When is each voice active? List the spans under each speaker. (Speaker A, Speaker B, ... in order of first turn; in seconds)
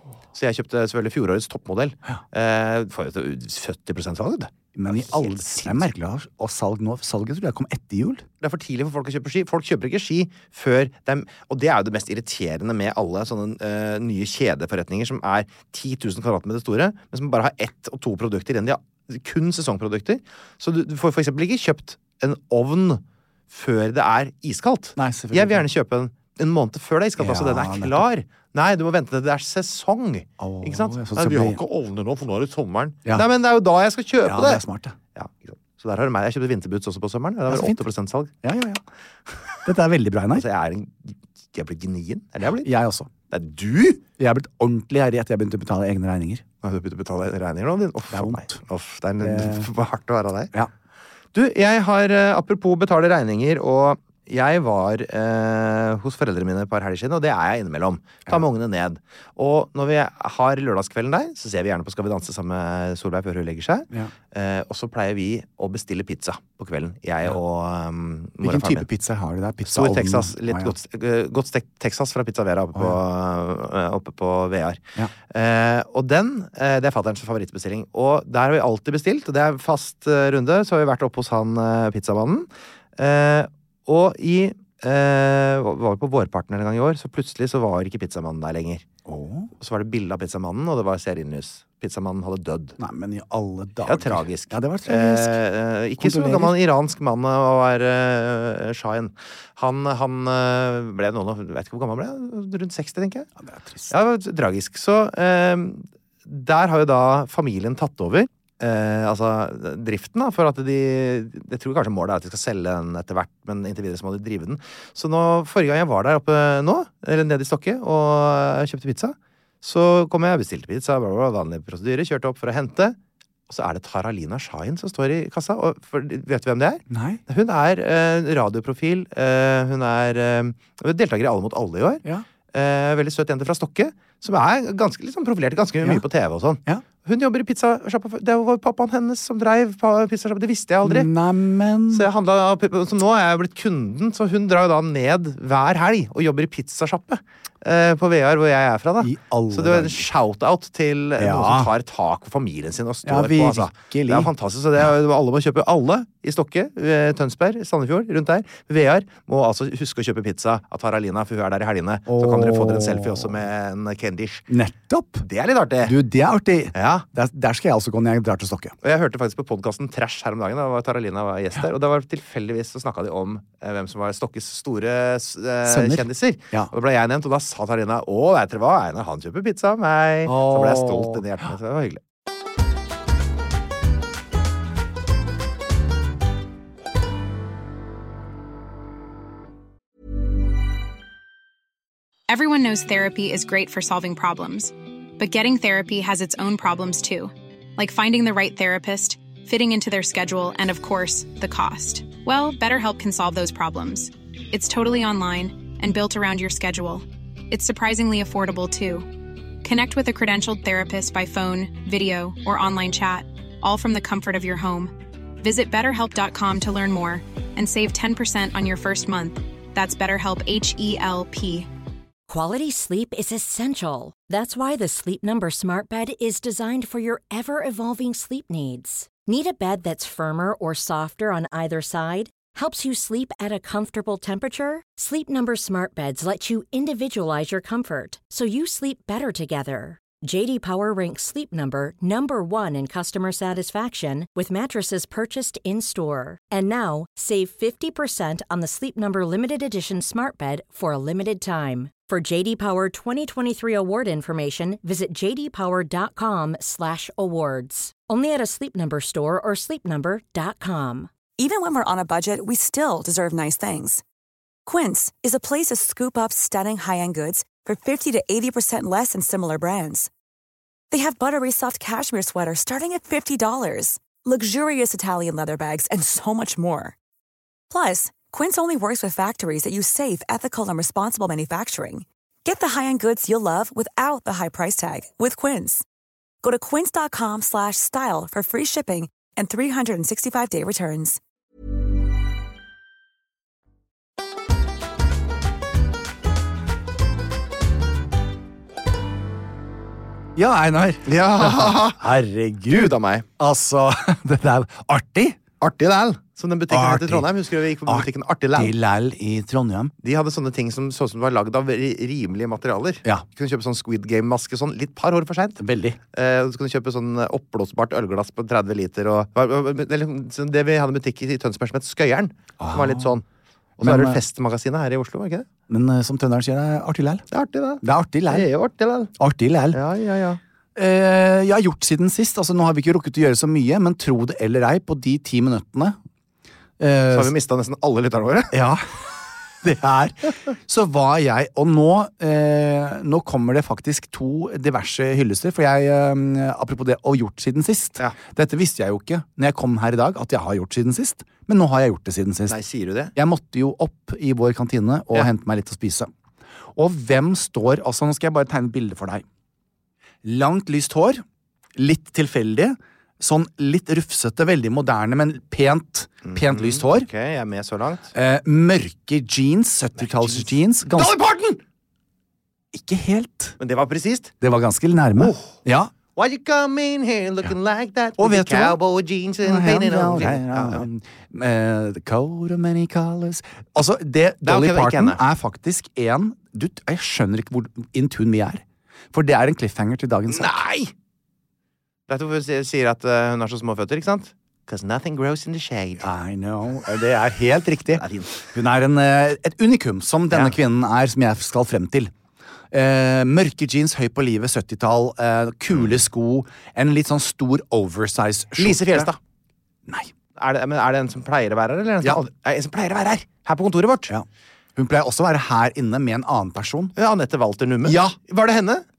Speaker A: 0.3-5.9, 8.4-34.6, 35.1-38.3, 40.3-42.7, 43.3-44.0, 46.6-50.5, 51.3-68.9, 69.7-88.8, 89.6-92.8, 93.8-103.3, 103.9-123.0, 123.5-141.1, 141.9-164.5, 165.2-166.0, 166.7-167.1, 168.8-182.0, 301.1-302.1, 302.7-303.3, 305.6-308.7, 310.0-315.6, 316.1-323.2, 323.8-325.5, 327.3-329.1, 329.7-330.4, 337.1-338.6, 352.5-353.1, 366.2-368.1, 370.0-371.6, 373.6-374.3, 375.2-375.6, 376.2-380.9, 384.4-385.2, 390.3-390.9, 392.1-396.1, 397.9-398.4, 408.6-409.2, 410.4-414.1, 417.0-418.9
Speaker B: 4.7-8.2, 25.0-25.6, 27.2-28.1, 30.4-31.6, 34.2-35.0, 37.5-37.9, 38.4-38.8, 39.6-40.5, 42.6-43.1, 44.2-46.4, 48.1-48.6, 49.2-49.7, 68.4-70.8, 89.1-89.5, 92.8-95.4, 96.0-96.6, 103.4-103.9, 126.9-127.2, 140.8-142.1, 149.0-150.1, 151.2-151.7, 153.1-154.3, 162.1-163.4, 164.5-165.3, 165.8-168.8, 175.7-176.7, 180.3-181.2, 300.4-305.4, 306.7-307.3, 307.9-309.9, 315.6-316.0, 322.6-323.1, 323.8-324.2, 325.7-327.2, 327.8-328.5, 329.2-329.8, 330.8-336.0, 336.8-337.3, 338.5-338.9, 339.6-352.6, 353.1-356.1, 356.8-359.2, 360.2-361.2, 361.8-367.1, 368.1-371.1, 372.7-373.6, 374.4-375.9, 378.2-378.8, 379.4-390.6, 396.0-402.1, 402.7-409.1, 414.1-416.9, 417.8-418.2
Speaker C: 192.3-209.1, 209.6-221.7
Speaker D: 222.3-261.1
Speaker E: 261.4-264.0, 264.7-270.1, 270.9-277.0, 277.7-285.9, 286.4-291.2